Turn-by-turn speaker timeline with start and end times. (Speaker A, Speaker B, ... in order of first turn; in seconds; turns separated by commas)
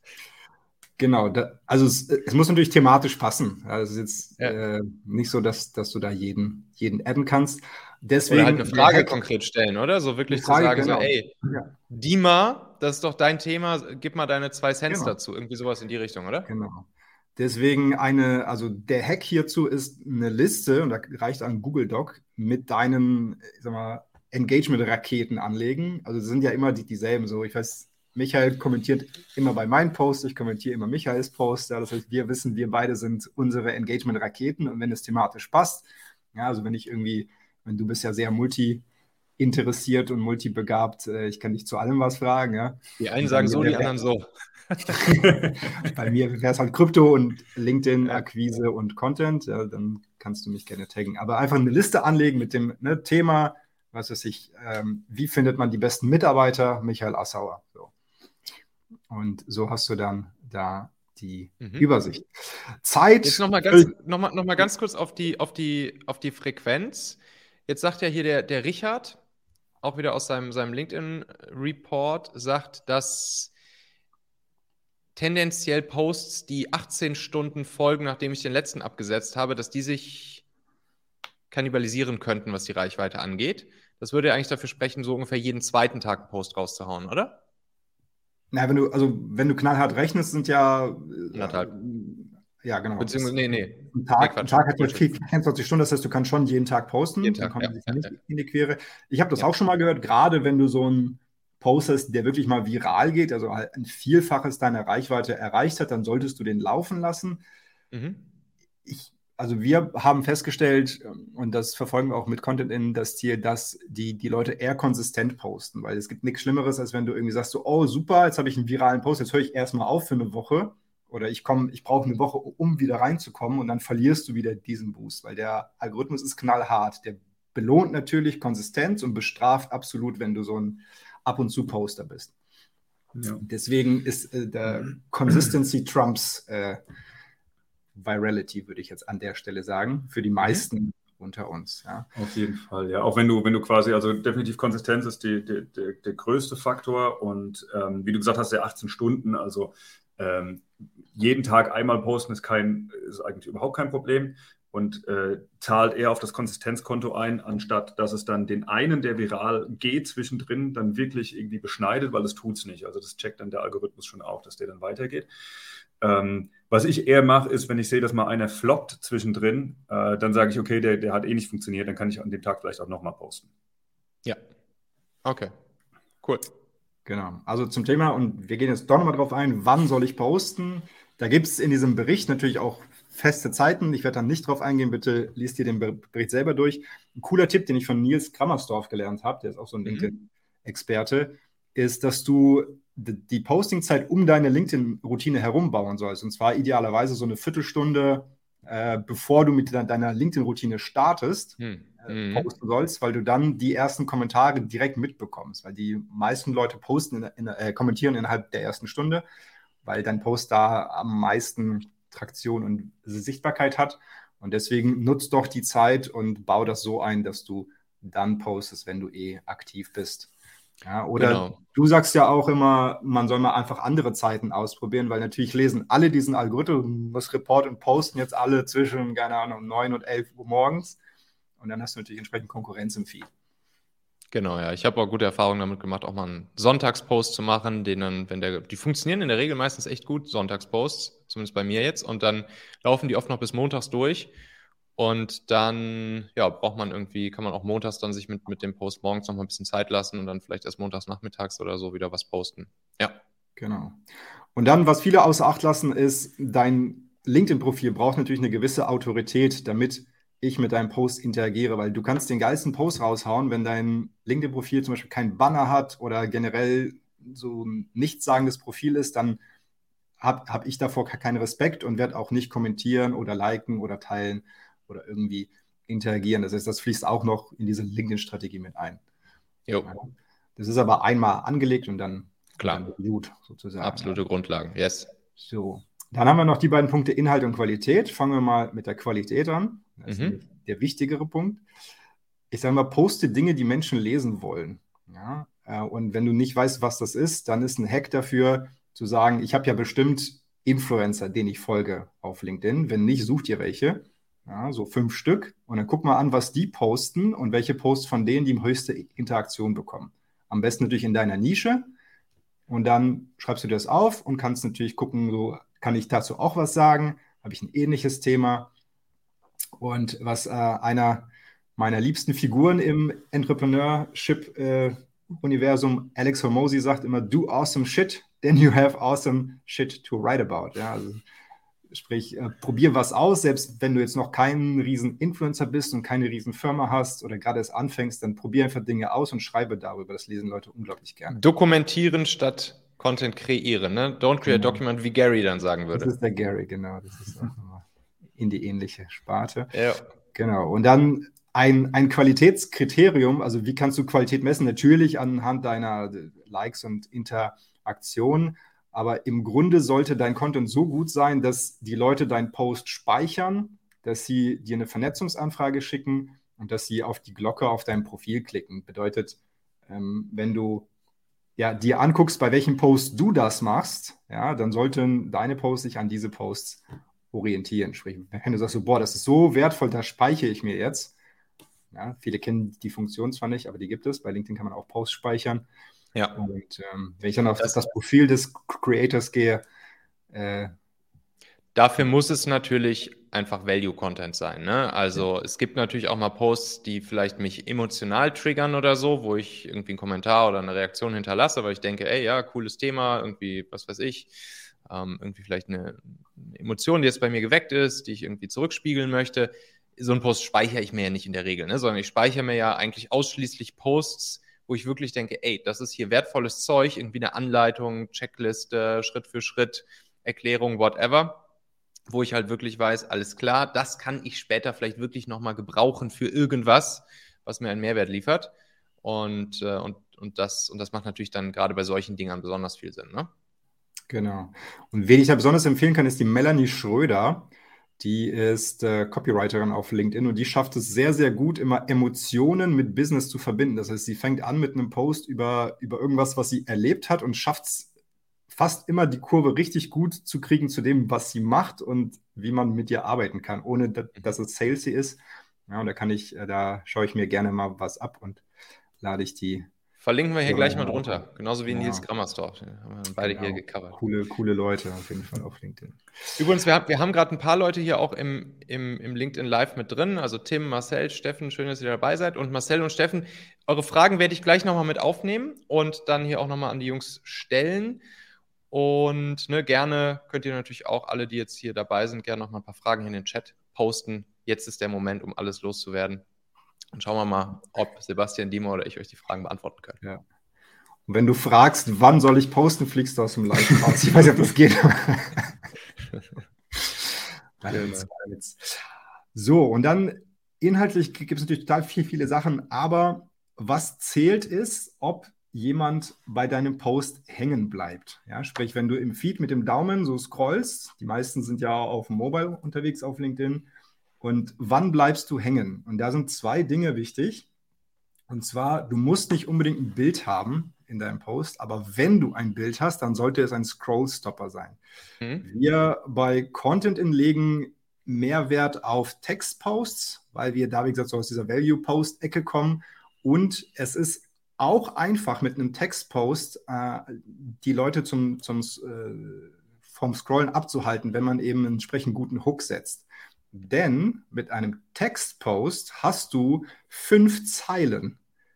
Speaker A: 1.0-9.2, Speaker B: 8.2-11.3, Speaker A: 10.3-11.7, Speaker B: 11.9-16.5, Speaker A: 14.9-15.2, Speaker A: 16.4-38.8, Speaker A: 39.4-44.0, Speaker B: 43.0-45.0, Speaker A: 45.0-57.9, Speaker A: 59.1-63.9, Speaker B: 61.6-61.9, Speaker B: 63.2-69.2, Speaker B: 69.8-73.5, Speaker B: 75.2-80.4, Speaker B: 81.5-87.4, Speaker A: 88.5-93.3, Speaker B: 91.3-91.7, Speaker B: 93.0-95.1, Speaker A: 93.9-107.4, Speaker B: 97.2-98.1, Speaker B: 107.9-108.2, Speaker A: 108.8-132.3, Speaker C: 133.1-133.4, Speaker A: 133.4-136.8, Speaker A: 137.9-142.1, Speaker C: 142.1-165.3, Speaker C: 166.0-173.5, Speaker B: 175.2-175.5, Speaker A: 177.1-209.2, Speaker B: 201.6-202.5, Speaker A: 209.8-220.3, Speaker A: 220.8-231.0, Speaker B: 221.2-221.6, Speaker A: 231.6-233.3, Speaker B: 234.3-244.3, Speaker B: 245.0-253.2, Speaker A: 253.6-254.0, Speaker A: 254.5-269.4, Speaker A: 270.2-279.0, Speaker A: 279.9-284.2, Speaker B: 283.8-285.1, Speaker A: 285.4-291.6, Speaker B: 290.1-290.4, Speaker A: 292.5-311.9, Speaker A: 312.7-318.7, Speaker A: 319.8-331.2, Speaker A: 331.9-341.4, Speaker B: 341.3-346.1, Speaker A: 344.4-344.8, Speaker A: 345.9-349.7, Speaker B: 349.7-350.1, Speaker A: 350.3-370.9, Speaker A: 371.6-381.1, Speaker A: 381.9-385.7, Speaker A: 386.3-389.6, Speaker A: 390.3-390.7, Speaker B: 391.7-404.3, Speaker B: 404.8-421.4, Speaker B: 422.1-428.5, Speaker B: 429.0-433.3, Speaker A: 434.1-447.9, Speaker A: 448.5-458.4, Speaker A: 459.0-459.7, Speaker B: 460.0-464.0, Speaker A: 460.4-462.0, Speaker A: 463.2-466.0, Speaker B: 466.4-478.0, Speaker B: 478.7-486.2, Speaker B: 486.9-490.0, Speaker A: 491.1-495.5, Speaker A: 497.6-498.8, Speaker B: 497.7-498.1, Speaker A: 499.3-513.7, Speaker A: 514.2-517.5, Speaker A: 518.3-524.8, Speaker A: 525.4-548.2